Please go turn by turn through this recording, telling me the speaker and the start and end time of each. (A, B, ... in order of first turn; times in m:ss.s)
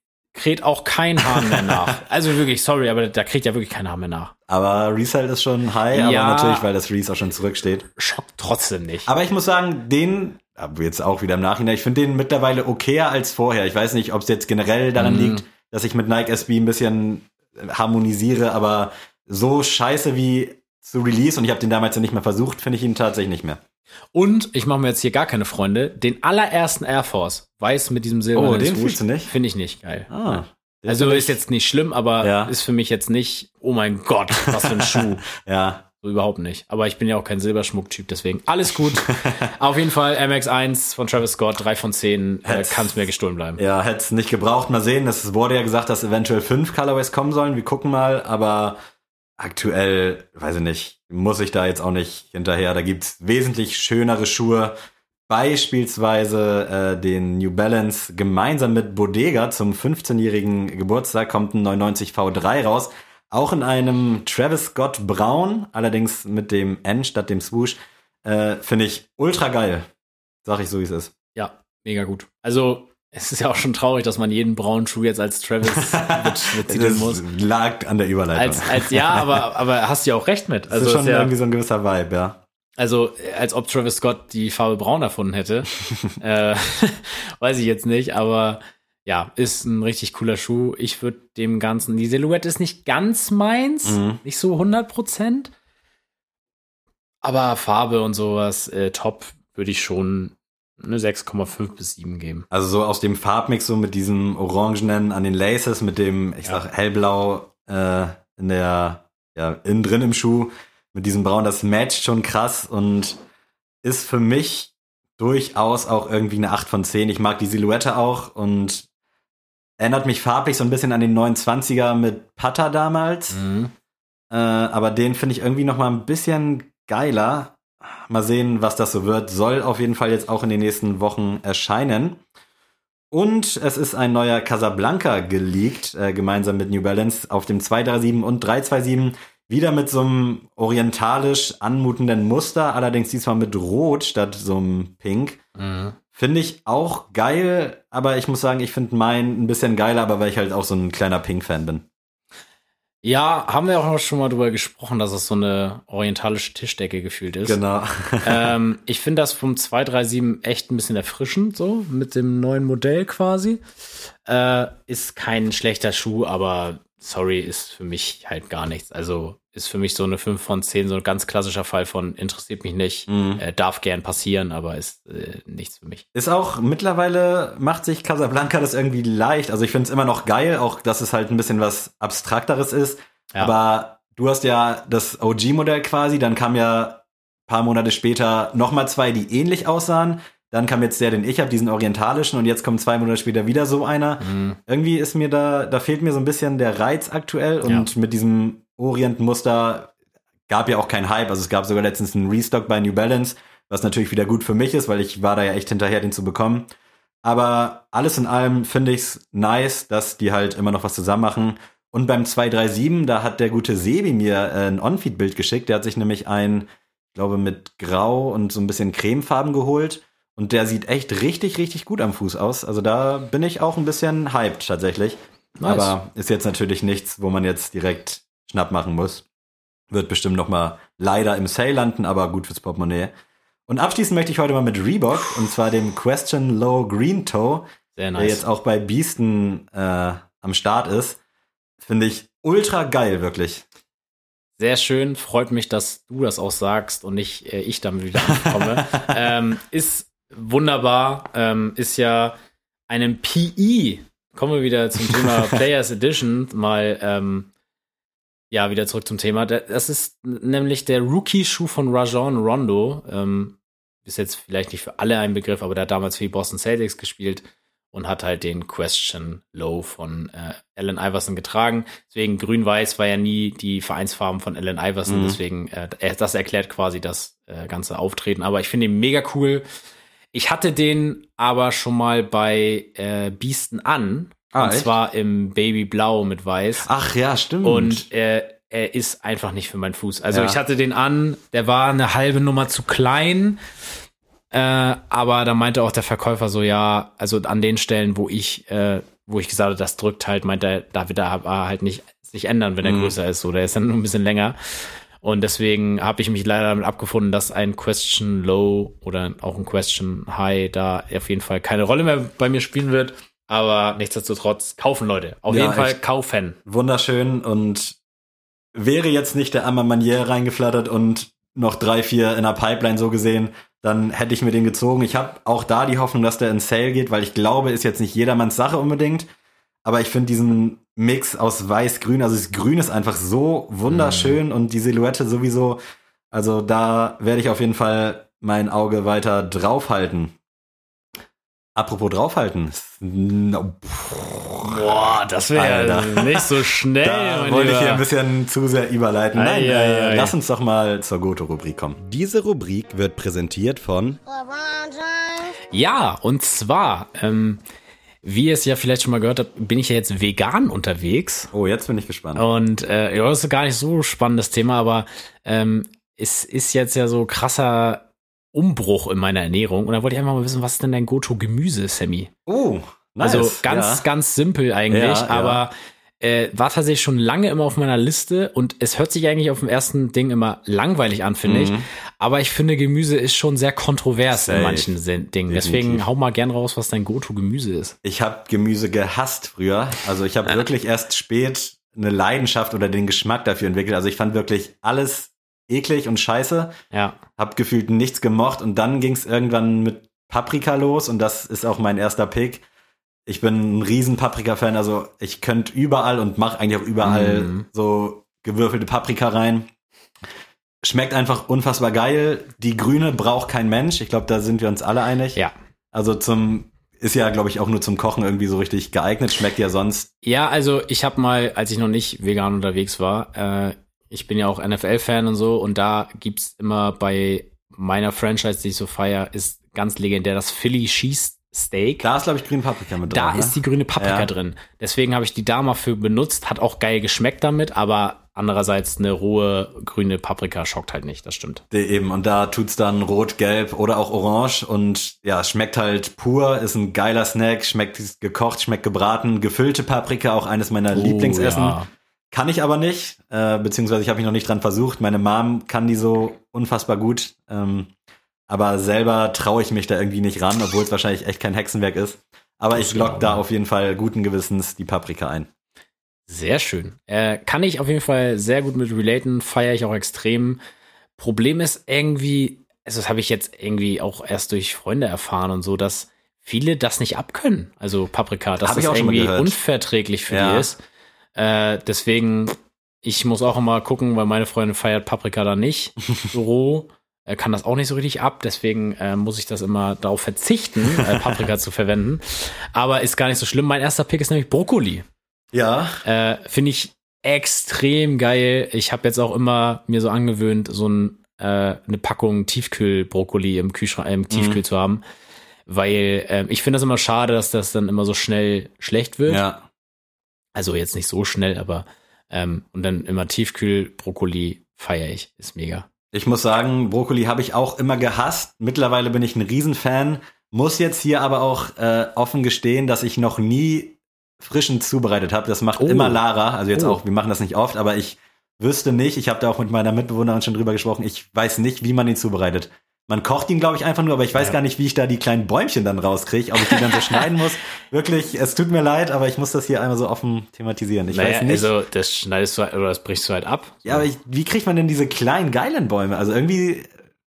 0:00.3-0:04.3 A
0:01.3-0:02.0 B
0:04.5-0:07.9 B
0:05.9-0:06.7 A
0:08.0-0:09.1 A
0:09.1-0:23.6 B
0:15.0-0:15.4 A
0:24.1-0:35.2 A
0:28.4-0:29.3 B
0:30.1-0:31.4 B
0:32.2-0:32.5 B
0:34.6-0:35.8 B
0:36.0-0:43.6 A
0:42.5-0:43.0 B
0:43.6-0:48.8 B
0:49.4-0:54.7 B
0:55.3-1:09.9 B
1:10.4-1:11.1 B
1:11.4-1:17.2 A
1:15.7-1:19.4 B
1:18.3-1:21.3 A
1:20.7-1:22.4 B
1:22.8-1:35.5 A
1:33.8-1:34.2 B
1:37.2-1:42.5 A
1:42.5-1:53.2 B
1:53.8-1:58.9 B
1:59.8-2:03.4 B
2:03.3-2:03.7 A
2:04.3-2:12.2 B
2:13.1-2:25.4 B
2:25.6-2:26.0 A
2:26.1-2:31.8 B
2:33.0-2:37.6 A
2:37.5-2:38.5 B
2:38.2-2:43.6 A
2:44.2-2:56.0 A
2:53.1-2:53.4 B
2:56.1-3:19.9 B
3:14.2-3:14.6 A
3:20.5-3:26.7 B
3:27.2-3:49.2 B
3:45.6-3:45.9 A
3:49.9-3:53.1 B
3:53.7-4:01.2 B
3:58.0-3:58.4 A
4:01.8-4:03.6 B
4:04.6-4:12.4 A
4:08.5-4:09.1 B
4:12.9-4:17.5 A
4:15.0-4:15.3 B
4:18.5-4:39.6 A
4:35.1-4:35.4 B
4:40.3-4:46.9 A
4:44.5-4:44.9 B
4:46.8-4:48.1 B
4:47.6-4:53.6 A
4:50.3-4:50.6 B
4:54.5-5:04.6 A
5:02.8-5:03.2 B
5:05.2-5:16.6 A
5:15.5-5:16.0 B
5:16.7-5:18.0 B
5:18.8-5:29.3 B
5:29.8-5:35.8 B
5:33.9-5:34.4 A
5:36.3-5:40.3 B
5:41.8-5:54.2 B
5:44.6-5:48.0 A
5:49.3-5:50.3 A
5:55.7-5:57.6 A
5:58.2-6:01.5 A
6:01.5-6:02.4 B
6:02.4-6:12.3 A
6:12.5-6:14.0 B
6:13.2-6:28.0 A
6:14.9-6:15.6 B
6:21.4-6:21.9 B
6:24.3-6:24.9 B
6:25.5-6:26.0 B
6:28.0-6:36.7 B
6:36.9-6:37.2 A
6:37.4-6:42.6 B
6:43.3-6:49.7 B
6:47.0-6:47.7 A
6:50.8-6:55.4 B
6:55.9-7:00.1 B
7:00.2-7:12.1 A
7:12.0-7:14.3 B
7:13.1-7:21.6 A
7:21.7-7:31.8 B
7:30.9-7:31.9 A
7:32.3-7:37.9 B
7:38.5-7:45.5 B
7:42.8-7:43.4 A
7:46.3-7:50.6 A
7:51.2-8:00.8 A
7:58.6-7:59.6 B
8:00.3-8:00.7 B
8:01.4-8:15.0 A
8:11.0-8:11.4 B
8:15.5-8:16.0 B
8:16.0-8:25.0 A
8:24.3-8:24.6 B
8:25.7-8:29.4 A
8:29.3-8:29.6 B
8:30.6-8:35.9 A
8:36.1-9:01.7 B
8:45.8-8:46.2 A
8:46.7-8:47.0 A
8:56.6-8:57.3 A
9:01.1-9:04.1 A
9:03.9-9:06.9 B